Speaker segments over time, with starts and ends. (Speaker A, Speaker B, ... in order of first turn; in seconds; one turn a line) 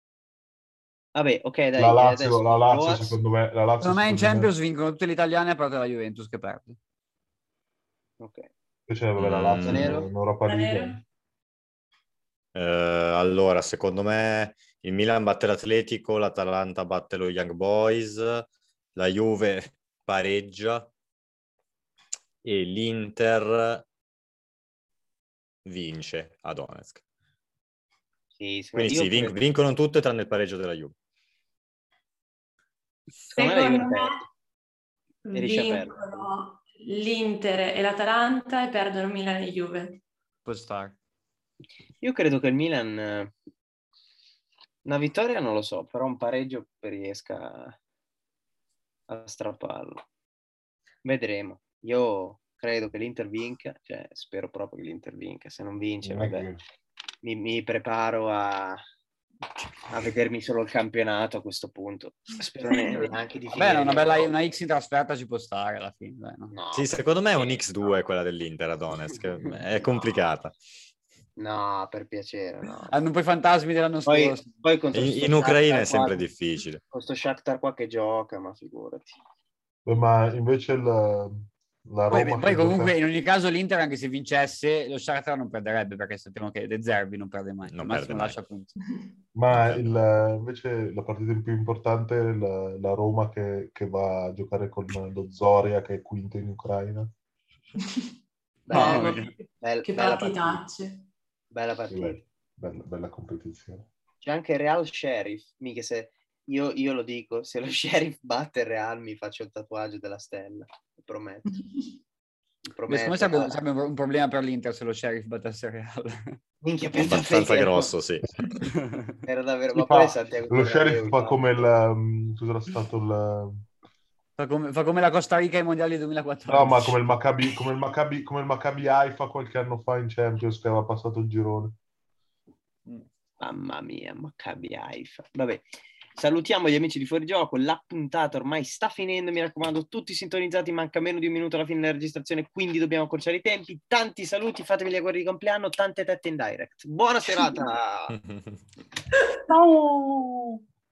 Speaker A: 1.1-3.2
Speaker B: 1.8-4.5
Speaker C: 3.8-6.8
Speaker A: 8.2-8.5
Speaker B: 8.9-11.0
Speaker D: 9.2-10.0
Speaker A: 9.7-10.1
Speaker E: 10.4-11.0
Speaker D: 12.6-20.9
Speaker D: 22.4-23.8
Speaker D: 25.6-27.0
Speaker A: 28.4-29.4
Speaker D: 28.8-30.9
Speaker E: 33.3-34.2
Speaker A: 33.3-34.2
Speaker E: 35.2-40.0
Speaker A: 35.3-36.3
Speaker C: 40.5-41.0
Speaker A: 42.0-43.3
Speaker A: 44.9-47.8
Speaker A: 49.1-50.0
Speaker A: 51.0-56.5
Speaker B: 56.0-56.6
Speaker A: 57.2-58.8
Speaker A: 59.9-64.3
Speaker C: 63.5-66.5
Speaker A: 66.5-68.0
Speaker D: 66.7-70.6
Speaker A: 71.4-72.9
Speaker C: 72.9-74.5
Speaker A: 74.1-76.3
Speaker D: 74.9-76.8
Speaker A: 76.9-79.2
Speaker B: 79.8-83.0
Speaker C: 82.1-88.7
Speaker D: 87.7-88.4
Speaker B: 89.3-97.1
Speaker D: 89.5-90.0
Speaker A: 98.7-100.6
Speaker C: 98.7-99.3
Speaker E: 98.7-101.0
Speaker A: 101.5-102.2
Speaker B: 101.9-103.9
Speaker A: 104.2-111.5
Speaker A: 112.7-113.6
Speaker C: 112.9-116.4
Speaker A: 116.6-117.9
Speaker D: 117.0-118.6
Speaker C: 118.6-119.2
Speaker A: 119.3-121.7
Speaker B: 119.7-123.6
Speaker C: 124.4-127.0
Speaker B: 126.5-131.8
Speaker A: 133.4-135.6
Speaker A: 136.2-148.2
Speaker D: 148.1-148.6